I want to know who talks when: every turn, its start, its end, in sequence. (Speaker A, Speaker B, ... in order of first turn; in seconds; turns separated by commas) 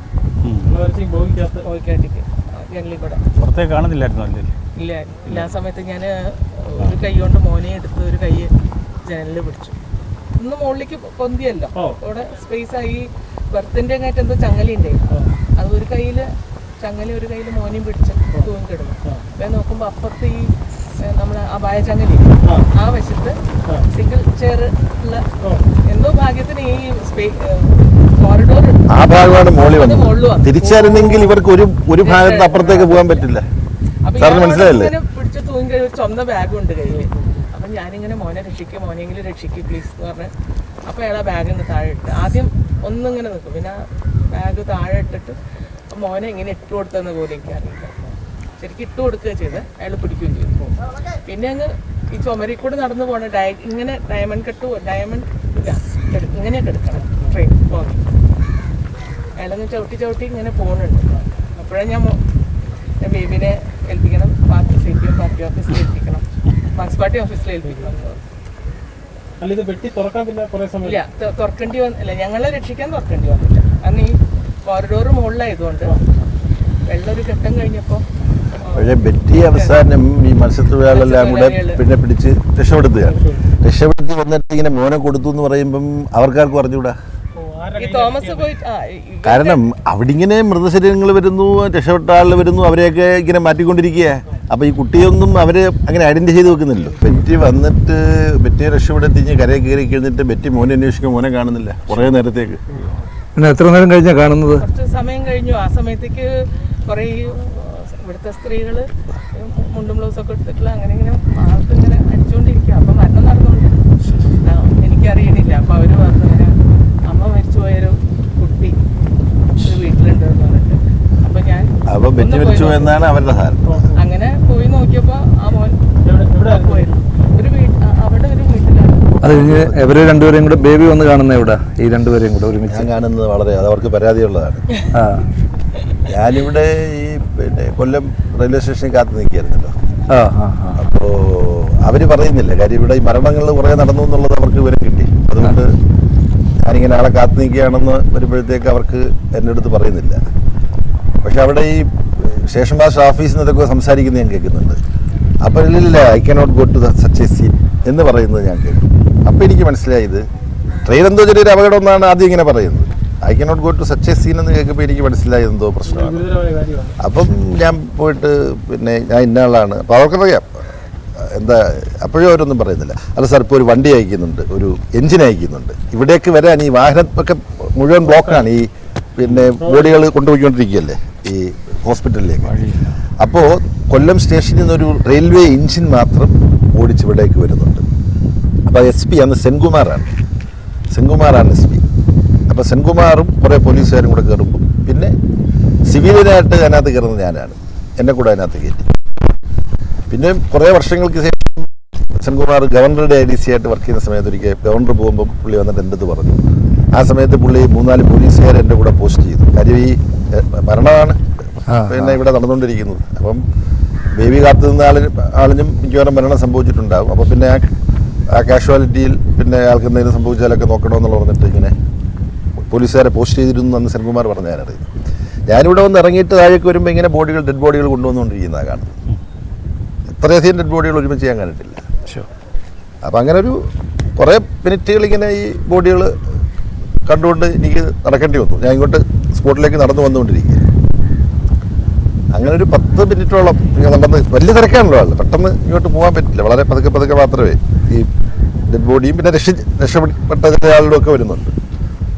Speaker A: 0.4-0.8, Speaker B: 0.7-1.7, Speaker C: 1.6-3.2, Speaker A: 3.4-4.5, Speaker C: 4.8-8.5, Speaker C: 9.0-9.8, Speaker C: 10.4-16.3, Speaker C: 16.8-25.2, Speaker B: 25.4-25.7, Speaker C: 25.9-28.9, Speaker D: 28.9-33.5, Speaker C: 29.6-31.4, Speaker C: 32.0-33.3, Speaker C: 34.0-40.3, Speaker D: 34.2-35.0, Speaker C: 40.9-43.8, Speaker C: 44.3-45.4, Speaker C: 45.9-48.0, Speaker C: 48.6-50.7, Speaker C: 51.2-58.0, Speaker C: 59.4-62.2, Speaker C: 63.0-68.2, Speaker B: 69.4-71.0, Speaker C: 70.8-76.0, Speaker C: 76.9-78.9, Speaker D: 78.7-87.0, Speaker C: 79.5-79.8, Speaker C: 80.9-81.8, Speaker B: 83.1-83.5, Speaker B: 87.3-88.5, Speaker C: 87.8-89.6, Speaker D: 89.2-102.6, Speaker E: 103.4-104.7, Speaker C: 104.6-113.8, Speaker C: 114.4-116.5, Speaker C: 117.1-118.8, Speaker C: 119.6-123.1, Speaker D: 121.9-123.9, Speaker B: 123.7-124.0, Speaker C: 124.0-125.8, Speaker B: 126.0-127.1, Speaker C: 126.5-129.2, Speaker E: 129.2-132.8, Speaker D: 132.7-134.7, Speaker E: 134.9-135.3, Speaker D: 136.1-139.7, Speaker E: 140.1-140.8, Speaker D: 140.8-145.7, Speaker D: 146.6-150.2, Speaker D: 151.2-154.8, Speaker D: 155.4-160.2, Speaker D: 160.8-166.3, Speaker B: 165.8-167.0, Speaker D: 167.0-170.5, Speaker D: 171.2-182.6, Speaker A: 179.2-179.5, Speaker B: 179.6-180.1, Speaker A: 182.4-183.0, Speaker D: 183.2-187.8, Speaker D: 188.7-190.1, Speaker D: 190.9-191.8, Speaker D: 192.5-195.1, Speaker D: 195.9-198.9, Speaker D: 200.1-206.4, Speaker D: 206.9-211.2, Speaker E: 211.7-212.2, Speaker D: 211.8-213.4, Speaker D: 214.2-217.7, Speaker D: 218.3-221.7, Speaker D: 222.7-224.8, Speaker D: 225.5-228.9, Speaker D: 230.2-231.8, Speaker D: 233.0-233.6, Speaker D: 234.2-236.1, Speaker D: 237.1-240.7, Speaker D: 242.3-248.1, Speaker D: 248.7-251.5